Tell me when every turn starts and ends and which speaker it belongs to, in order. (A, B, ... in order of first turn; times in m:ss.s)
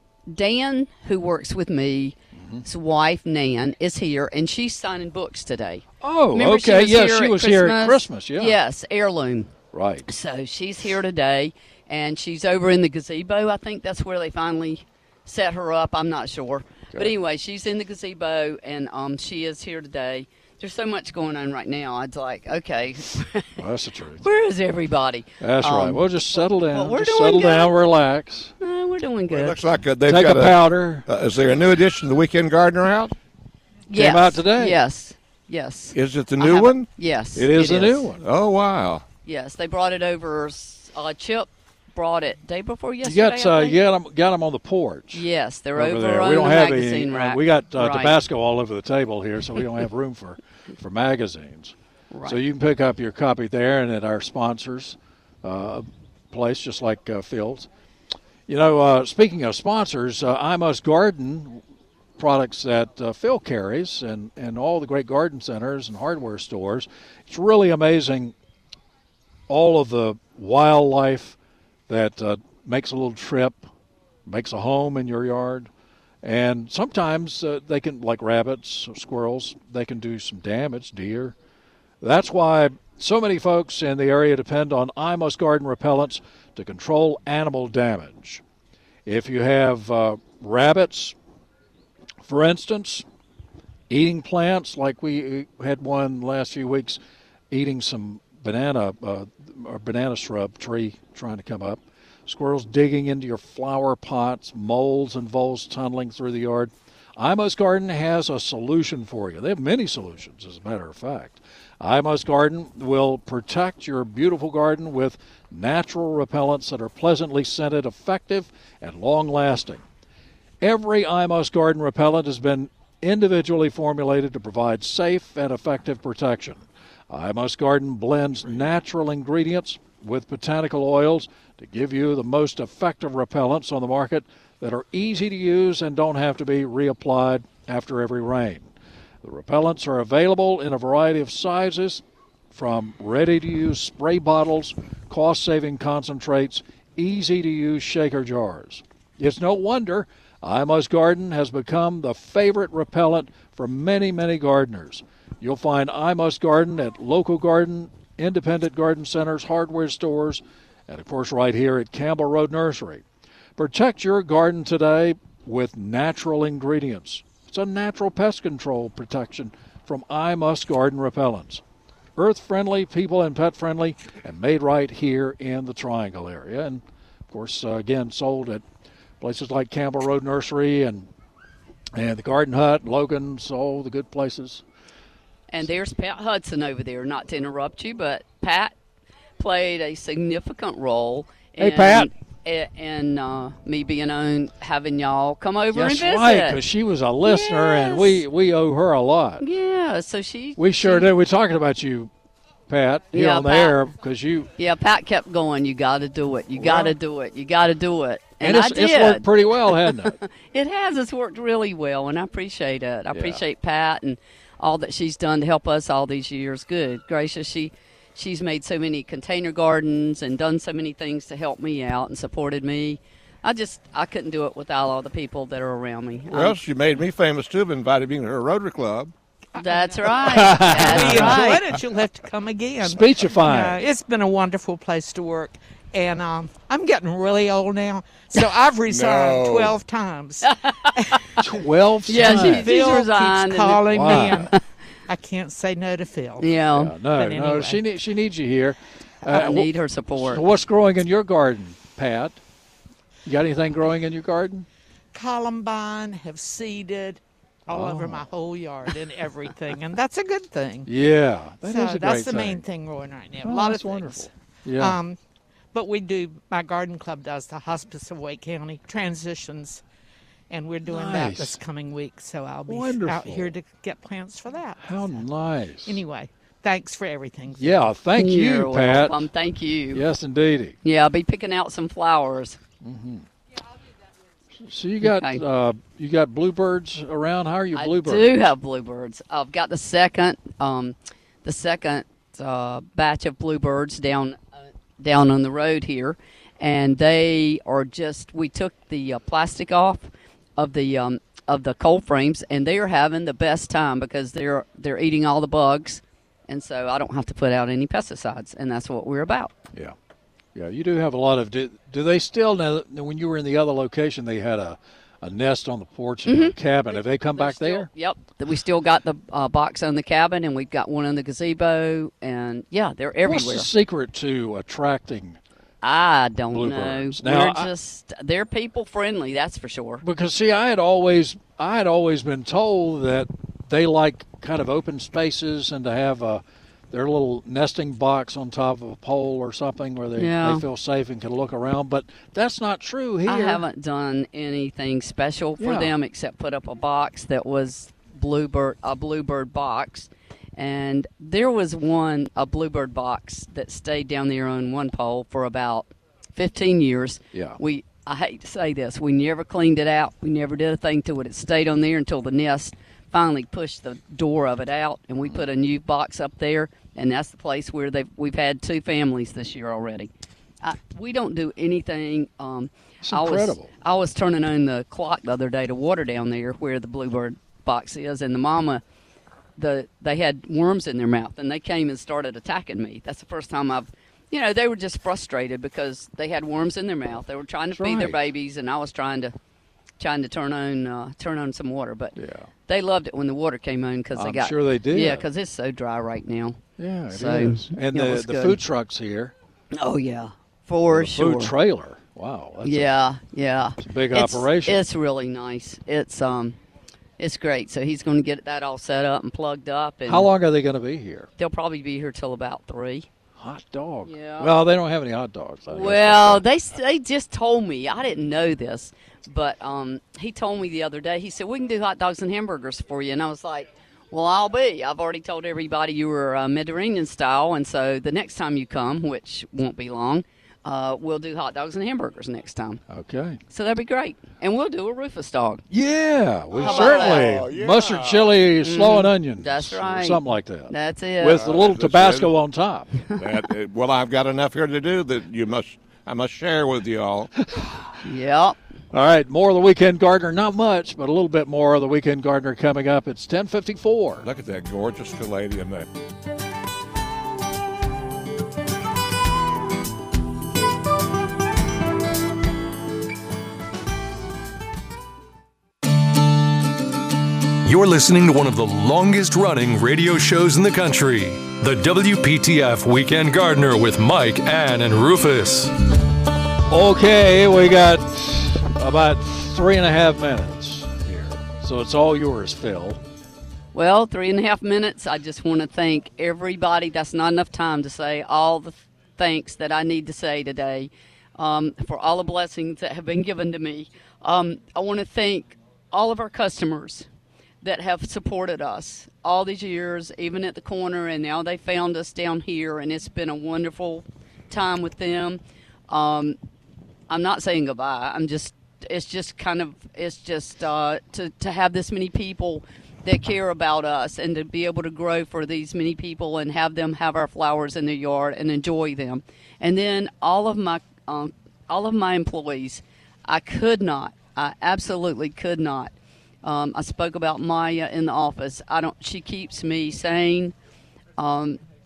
0:00.3-0:09.5 A
0:02.3-0:02.6 B
0:06.0-0:08.6 B
0:09.7-0:10.1 B
0:10.0-0:23.5 A
0:23.6-0:24.2 B
0:24.2-0:27.7 A
0:25.4-0:28.5 B
0:28.6-0:29.6 A
0:29.3-0:33.1 C
0:30.0-0:31.0 B
0:33.9-0:38.1 A
0:33.9-0:34.8 B
0:35.9-0:36.9 C
0:37.4-0:38.2 B
0:38.2-0:39.0 C
0:39.2-0:43.8 A
0:43.0-0:51.7 B
0:45.1-0:48.2 A
0:52.1-0:52.4 A
0:52.2-0:57.7 B
0:58.5-1:01.6 B
1:02.2-1:08.3 B
1:09.5-1:11.4 B
1:11.9-1:13.7 B
1:14.2-1:15.7 B
1:16.2-1:21.3 B
1:22.0-1:28.4 B
1:29.0-1:31.1 B
1:32.2-1:33.0 B
1:33.9-1:37.0 B
1:37.5-1:59.8 B
2:00.6-2:18.7 B
2:19.2-2:43.0 B
2:43.6-2:51.6 B
2:52.2-2:58.6 B
2:59.2-3:01.1 B
3:01.9-3:04.6 B
3:05.5-3:08.7 A
3:09.4-3:16.6 A
3:11.6-3:12.1 B
3:15.7-3:19.4 B
3:17.2-3:18.2 A
3:19.4-3:21.1 A
3:20.6-3:22.1 B
3:22.7-3:24.5 B
3:23.1-3:23.8 A
3:24.6-3:29.3 A
3:26.6-3:26.9 B
3:28.4-3:30.2 B
3:29.8-3:46.6 A
3:33.1-3:33.4 B
3:46.3-3:49.1 C
3:49.6-3:51.6 A
3:49.6-4:01.4 D
3:50.2-3:51.6 B
3:52.8-3:53.8 B
3:58.9-3:59.8 C
4:00.4-4:01.4 A
4:01.4-4:03.0 B
4:02.1-4:04.6 A
4:02.2-4:04.5 D
4:03.9-4:04.5 B
4:05.1-4:06.5 D
4:06.4-4:06.9 A
4:06.7-4:12.4 B
4:07.1-4:07.8 D
4:09.2-4:10.4 A
4:13.2-4:14.6 B
4:15.1-4:20.9 D
4:17.7-4:18.3 B
4:20.8-4:22.6 B
4:21.6-4:25.2 D
4:23.4-4:25.0 B
4:25.7-4:29.8 D
4:30.5-4:35.2 D
4:30.8-4:31.6 B
4:32.7-4:33.5 B
4:34.8-4:36.0 B
4:35.8-4:37.8 D
4:37.6-4:39.2 B
4:38.2-4:40.0 A
4:39.9-4:40.8 B
4:40.8-4:42.6 A
4:42.8-4:43.2 B
4:44.6-4:48.5 B
4:45.0-4:45.4 A
4:47.7-4:54.4 A
4:55.0-5:09.5 A
5:10.5-5:17.9 B
5:16.2-5:23.7 A
5:23.2-5:25.4 B
5:25.8-5:30.0 A
5:26.5-5:27.7 B
5:30.0-5:43.6 B
5:40.2-5:40.6 A
5:43.2-6:10.1 A
5:45.6-5:45.9 B
5:57.3-5:57.6 B
6:10.6-6:18.8 A
6:13.0-6:13.7 B
6:19.6-6:29.3 A
6:27.7-6:28.2 B
6:30.0-6:32.2 A
6:32.2-6:32.5 B
6:32.7-6:36.6 A
6:34.1-6:35.2 B
6:36.8-6:39.3 B
6:37.1-6:38.6 A
6:39.7-6:41.5 A
6:40.9-6:42.9 B
6:42.6-6:46.6 A
6:43.8-6:44.8 B
6:47.2-6:50.3 A
6:50.1-6:51.3 B
6:51.4-6:53.1 A
6:53.4-6:56.4 B
6:54.0-6:54.5 A
6:55.7-7:12.8 A
7:12.9-7:13.4 B
7:13.5-7:15.6 A
7:15.7-7:22.9 B
7:16.5-7:18.4 C
7:16.6-7:17.3 A
7:18.6-7:21.4 A
7:21.3-7:22.3 C
7:23.1-7:27.3 C
7:28.0-7:28.6 A
7:28.9-7:34.2 B
7:34.2-7:35.8 C
7:47.6-7:55.7 E
7:56.7-8:03.0 B
8:03.7-8:17.1 A
8:17.6-8:26.4 A
8:27.1-8:45.9 A
8:46.4-8:50.5 A
8:51.2-8:51.6 A